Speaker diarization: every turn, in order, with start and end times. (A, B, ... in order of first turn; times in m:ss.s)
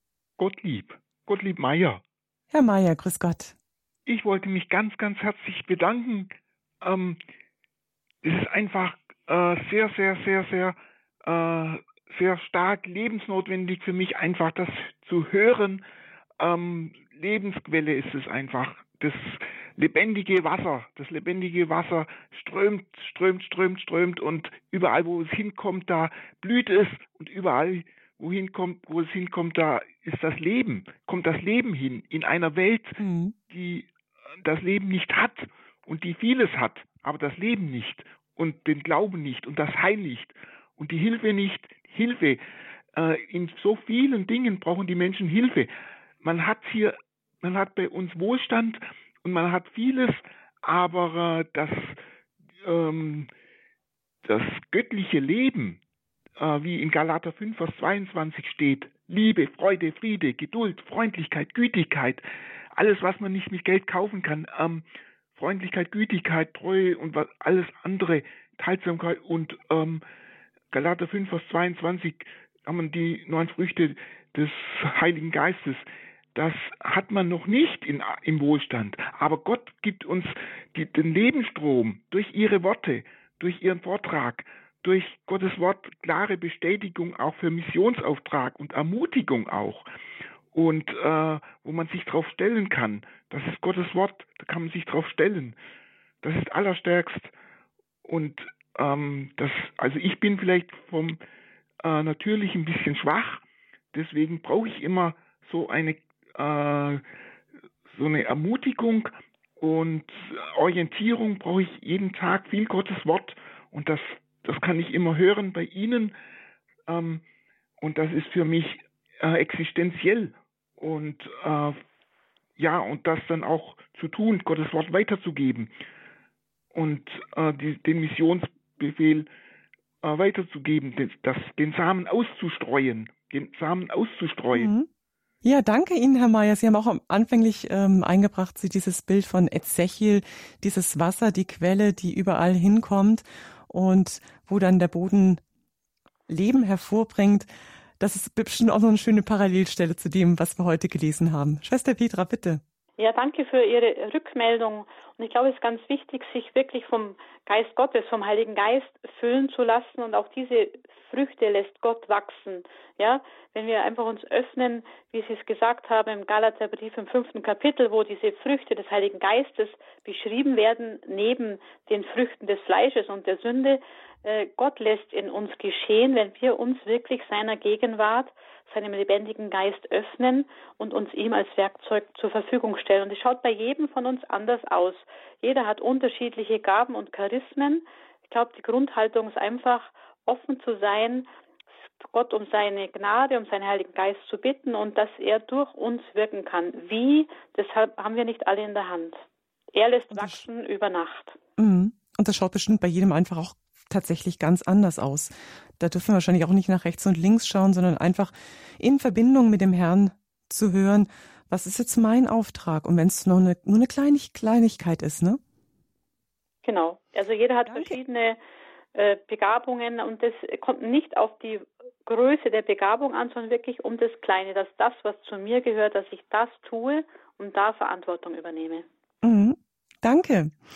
0:00.4-0:02.0 A
0:02.5-0:03.5 B
0:04.0-0:06.3 A
0:06.8-0:07.2 A
0:08.2-0:15.8 A
0:16.4-0:33.9 A
0:33.0-0:33.3 B
0:34.4-0:42.4 A
0:42.9-0:45.7 A
0:46.2-0:52.0 A
0:52.6-0:53.3 A
0:54.2-0:55.8 A
0:56.4-1:02.2 A
1:02.7-1:04.8 A
1:05.3-1:10.0 A
1:10.7-1:29.8 A
1:30.5-1:35.5 A
1:36.2-1:37.3 A
1:38.0-1:41.2 A
1:41.8-1:47.0 A
1:47.9-1:56.1 A
1:56.9-1:57.2 A
1:57.8-2:01.8 A
2:02.6-2:05.7 A
2:06.7-2:09.3 A
2:10.0-2:14.7 A
2:14.5-2:14.9 B
2:15.4-2:25.4 B
2:26.3-2:27.5 B
2:28.0-2:32.6 B
2:33.0-3:11.3 C
3:12.0-3:21.4 C
3:20.1-3:20.4 B
3:21.6-3:35.4 B
3:36.6-3:38.4 C
3:37.7-3:38.0 B
3:38.9-3:48.8 C
3:49.2-3:50.6 B